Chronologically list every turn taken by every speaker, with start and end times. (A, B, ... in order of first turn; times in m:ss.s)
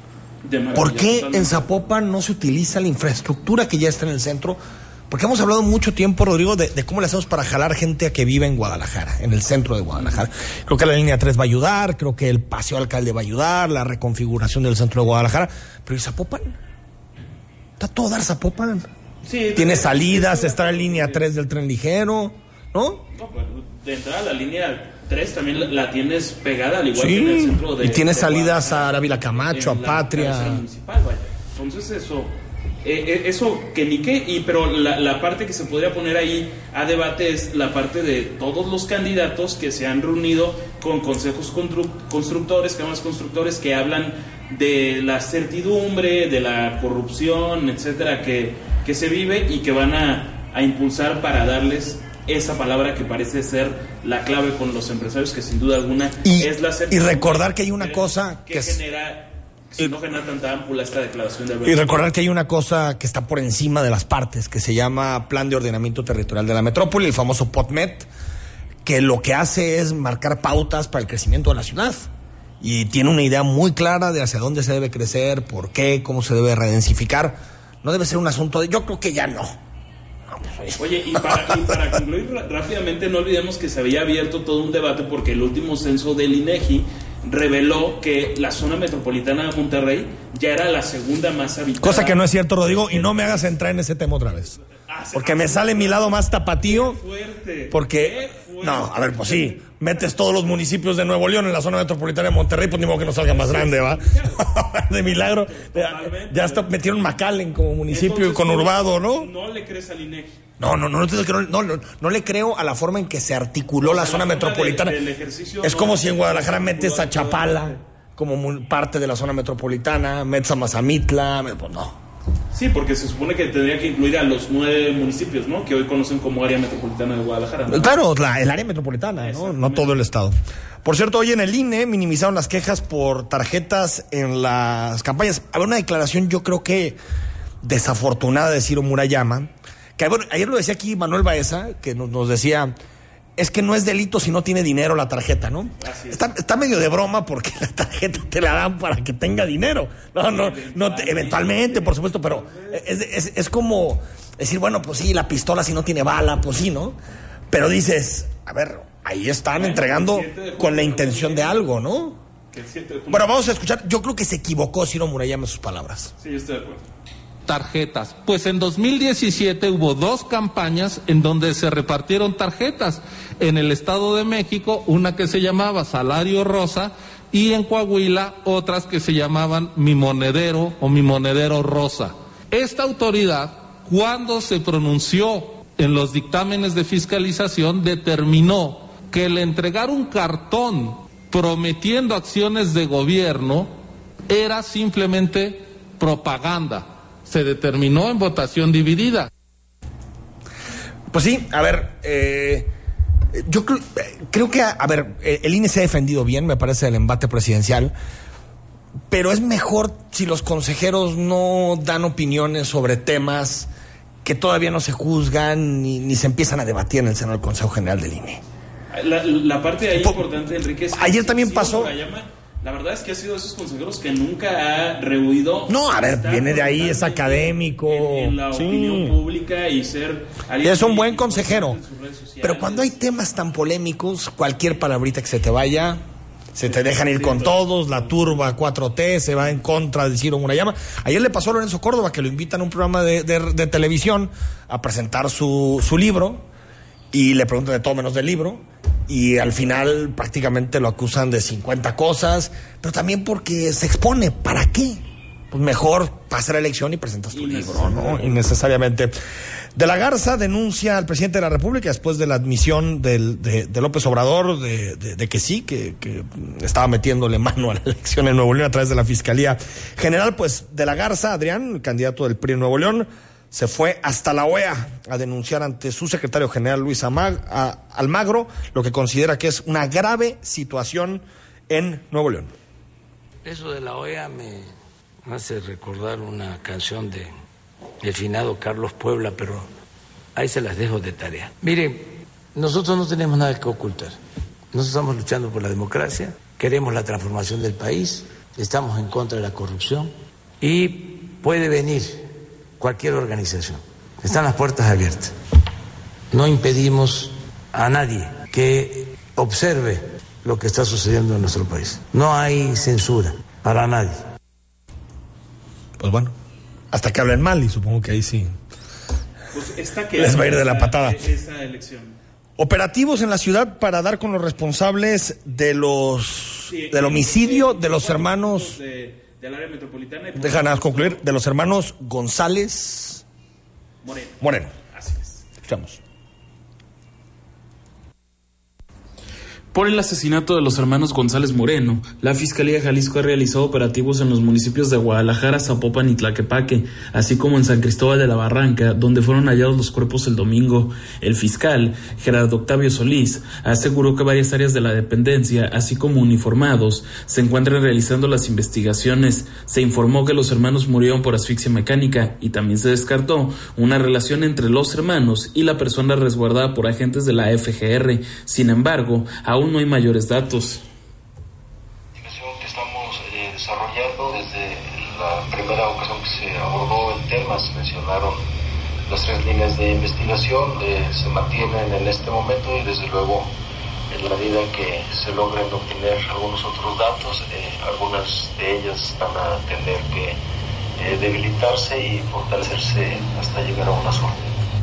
0:00.4-0:01.7 A
0:00.7-0:16.6 B
0:17.8-0:18.9 B
0:19.2-0:21.2 A
0:19.5-0:23.0 B
0:23.1-0:32.3 A
0:26.9-0:30.6 B
0:32.8-1:02.0 A
0:56.2-0:58.8 B
1:01.6-1:08.1 B
1:08.8-1:12.1 B
1:12.6-1:19.6 B
1:20.3-1:21.9 B
1:20.8-1:32.2 A
1:31.8-1:34.6 B
1:32.7-1:33.4 A
1:34.7-1:39.6 A
1:35.1-1:37.0 B
1:37.7-1:49.3 B
1:43.1-1:44.4 A
1:45.2-1:46.7 A
1:47.9-1:50.4 A
1:50.6-1:55.0 B
1:53.8-1:57.8 A
1:55.6-2:02.0 B
2:02.5-2:07.9 A
2:07.7-2:17.0 B
2:09.2-2:10.0 A
2:17.6-2:22.7 B
2:23.4-2:37.0 B
2:25.8-2:26.2 A
2:30.3-2:32.8 A
2:37.5-2:42.2 B
2:39.6-2:41.6 A
2:42.5-2:43.3 A
2:43.1-2:46.1 B
2:46.2-2:46.8 A
2:47.5-3:13.7 C
3:14.3-3:19.3 C
3:21.1-3:22.7 B
3:23.3-3:27.9 B
3:29.1-3:33.7 B
3:34.2-3:38.4 B
3:38.9-3:53.0 A
3:39.9-3:40.2 B
3:40.9-3:41.9 B
3:45.7-3:49.2 B
3:50.6-3:51.8 B
3:52.4-3:56.0 B
3:56.5-4:06.4 B
3:56.7-3:58.4 A
4:07.1-4:19.1 B
4:17.3-4:18.4 A
4:19.7-4:42.5 B
4:43.4-4:44.7 D
4:45.2-4:47.3 D
4:48.0-4:49.7 D
4:50.4-4:54.2 D
4:54.7-5:02.2 D
5:02.8-5:05.3 D
5:06.3-5:14.2 D
5:16.0-5:16.3 B
5:16.9-5:18.5 B
5:19.5-5:22.2 A
5:20.2-5:21.2 B
5:22.6-5:28.8 B
5:26.7-5:31.2 A
5:30.3-5:33.2 B
5:34.0-5:35.5 A
5:34.4-5:34.7 B
5:35.6-5:36.0 B
5:39.7-6:10.8 A
6:12.2-6:18.4 E
6:19.1-6:23.5 E
6:24.1-6:30.4 E
6:31.0-6:34.4 E